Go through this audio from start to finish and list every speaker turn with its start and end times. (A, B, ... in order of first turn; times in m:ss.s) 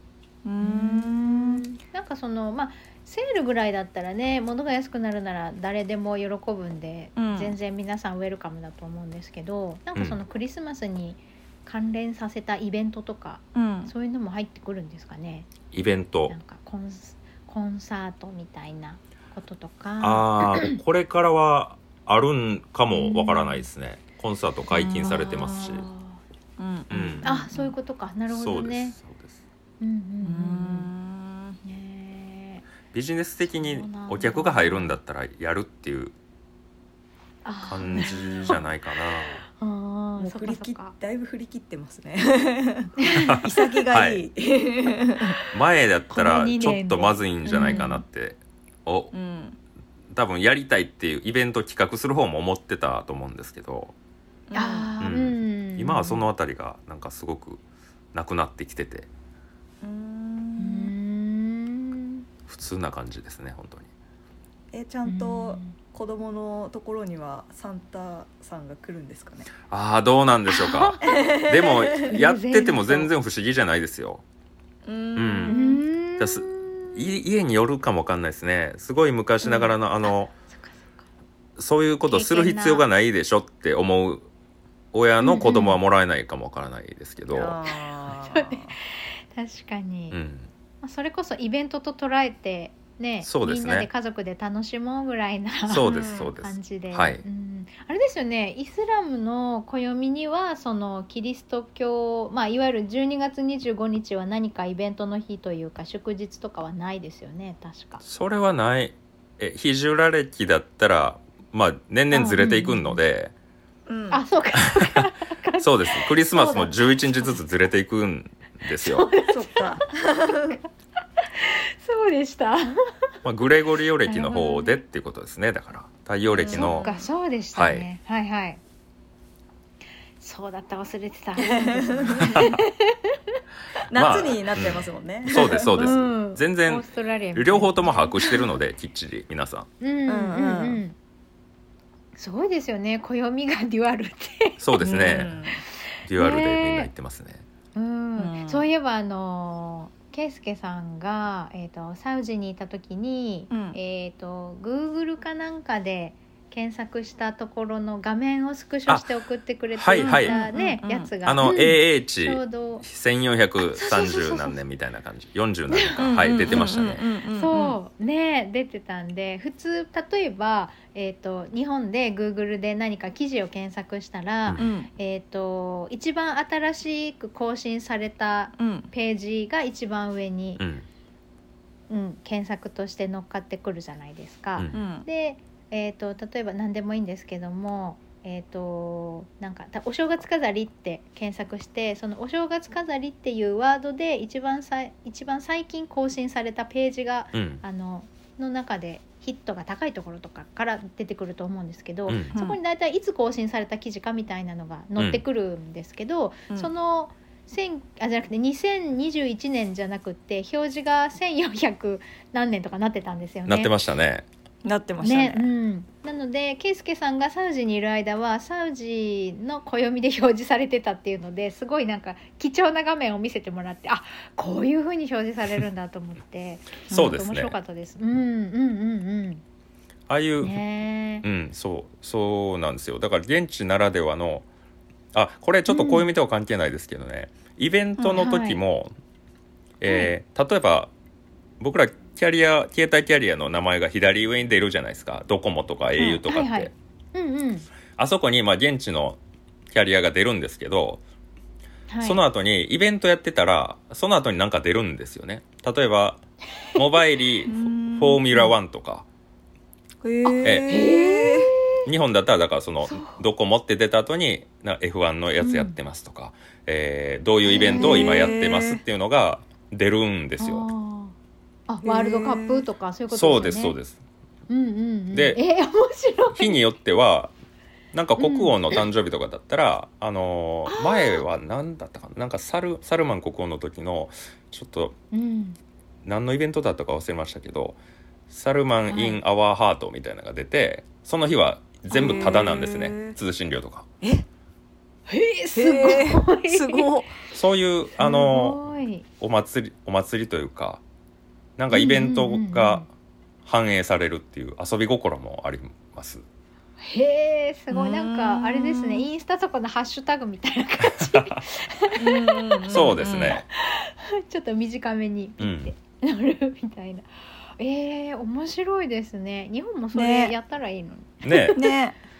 0:00.4-0:01.6 A
0:00.6-0:15.5 B
0:07.2-0:07.6 A
0:13.5-0:13.9 A
0:15.7-0:16.4 C
0:16.3-0:20.8 B
0:20.0-0:25.9 C
0:22.9-0:23.6 B
0:24.7-0:25.4 A
0:25.0-0:26.2 B
0:26.6-0:27.7 A
0:26.9-0:27.5 C
0:27.2-0:29.0 B
0:28.3-0:29.4 C
0:29.8-0:30.9 B
0:30.2-0:31.6 A
0:31.6-0:32.6 B
0:32.9-0:36.1 C
0:33.4-0:35.0 B
0:37.4-0:38.7 B
0:37.7-0:39.4 C
0:37.9-0:38.6 A
0:39.5-0:40.9 B
0:40.2-0:45.4 A
0:43.0-0:43.5 B
0:43.2-0:44.2 C
0:45.5-0:49.1 C
0:46.1-0:48.0 B
0:47.5-0:47.8 A
0:49.1-0:49.6 A
0:50.1-0:53.9 C
0:54.5-0:54.9 A
0:54.5-0:56.3 B
0:55.0-0:57.6 C
0:58.1-0:59.1 C
0:59.8-1:00.9 A
1:00.6-1:02.3 B
1:02.5-1:03.9 C
1:04.7-1:09.5 A
1:05.0-1:05.7 B
1:09.7-1:14.2 C
1:10.5-1:11.2 B
1:11.1-1:11.9 A
1:12.0-1:13.1 B
1:14.8-1:15.8 A
1:15.1-1:15.6 C
1:15.5-1:17.2 B
1:16.2-1:20.3 C
1:19.4-1:21.0 B
1:21.6-1:24.3 C
1:22.0-1:22.8 B
1:24.9-1:27.6 C
1:25.2-1:25.8 B
1:27.3-1:28.7 A
1:28.2-1:30.2 B
1:30.1-1:30.5 C
1:30.8-1:48.0 B
1:33.2-1:33.9 C
1:35.7-1:37.2 C
1:35.8-1:36.3 A
1:48.0-1:53.3 C
1:52.1-1:53.0 B
1:53.9-1:54.2 A
1:54.1-1:57.4 B
1:55.6-1:59.1 C
1:58.8-1:59.8 B
1:59.2-2:00.6 A
2:01.3-2:02.7 B
2:03.2-2:06.9 C
2:04.0-2:04.8 B
2:06.3-2:07.0 A
2:06.5-2:08.6 B
2:07.5-2:07.9 C
2:10.2-2:13.1 B
2:11.4-2:12.3 A
2:12.2-2:12.6 C
2:13.9-2:15.4 A
2:13.9-2:19.7 C
2:15.3-2:18.5 B
2:19.8-2:20.9 B
2:20.1-2:20.8 A
2:22.1-2:24.6 B
2:24.6-2:25.4 C
2:24.8-2:25.6 A
2:26.0-2:27.4 C
2:26.1-2:26.9 B
2:27.7-2:42.8 B
2:28.2-2:28.7 A
2:33.5-2:33.8 A
2:39.7-2:40.4 C
2:39.9-2:41.1 A
2:41.2-2:47.0 C
2:43.7-2:44.6 B
2:45.7-2:46.6 B
2:46.0-2:47.8 A
2:47.3-3:00.7 B
2:54.6-2:54.9 A
2:58.6-2:58.9 A
3:00.6-3:00.8 C
3:01.9-3:33.7 B
3:04.7-3:05.1 A
3:17.3-3:17.6 C
3:22.1-3:22.3 C
3:22.3-3:22.6 A
3:25.0-3:25.2 C
3:33.4-3:34.2 C
3:34.6-3:35.5 A
3:35.0-3:49.4 B
3:46.9-3:47.6 C
3:50.1-3:50.6 C
3:50.4-3:51.2 B
3:51.2-3:54.5 C
3:55.1-3:58.9 C
3:55.7-3:56.1 B
3:58.0-3:58.6 B
3:59.8-4:00.9 C
3:59.8-4:00.1 B
4:01.6-4:06.7 C
4:05.9-4:07.7 B
4:08.0-4:09.2 C
4:09.7-4:11.0 C
4:11.9-4:12.2 B
4:12.0-4:16.2 C
4:16.7-4:19.0 C
4:17.4-4:18.3 A
4:20.0-4:21.5 A
4:20.2-4:21.8 B
4:20.4-4:20.7 C
4:21.8-4:30.7 C
4:22.8-4:23.2 B
4:25.4-4:25.8 B
4:27.4-4:28.3 B
4:27.5-4:28.8 A
4:30.4-4:31.1 B
4:31.7-4:33.8 B
4:31.8-4:32.7 A
4:33.1-4:34.0 C
4:34.5-4:36.6 B
4:35.1-4:35.4 C
4:36.3-4:37.3 C
4:37.9-4:45.0 C
4:38.2-4:38.8 B
4:40.7-4:41.2 B
4:45.1-4:45.6 B
4:46.0-4:53.9 C
4:48.9-4:49.2 B
4:51.9-4:52.5 B
4:51.9-4:53.1 A
4:55.1-4:56.9 B
4:55.5-4:57.1 A
4:57.3-4:58.6 C
4:58.0-4:59.0 B
4:59.2-5:00.8 C
5:01.6-5:02.9 C
5:01.7-5:02.9 B
5:03.4-5:06.2 C
5:06.8-5:13.0 B
5:07.7-5:09.1 A
5:11.1-5:11.4 C
5:12.0-5:13.4 A
5:12.7-5:13.4 C
5:13.5-5:21.5 B
5:15.4-5:15.7 C
5:19.9-5:20.3 A
5:21.2-5:21.6 C
5:21.3-5:22.0 A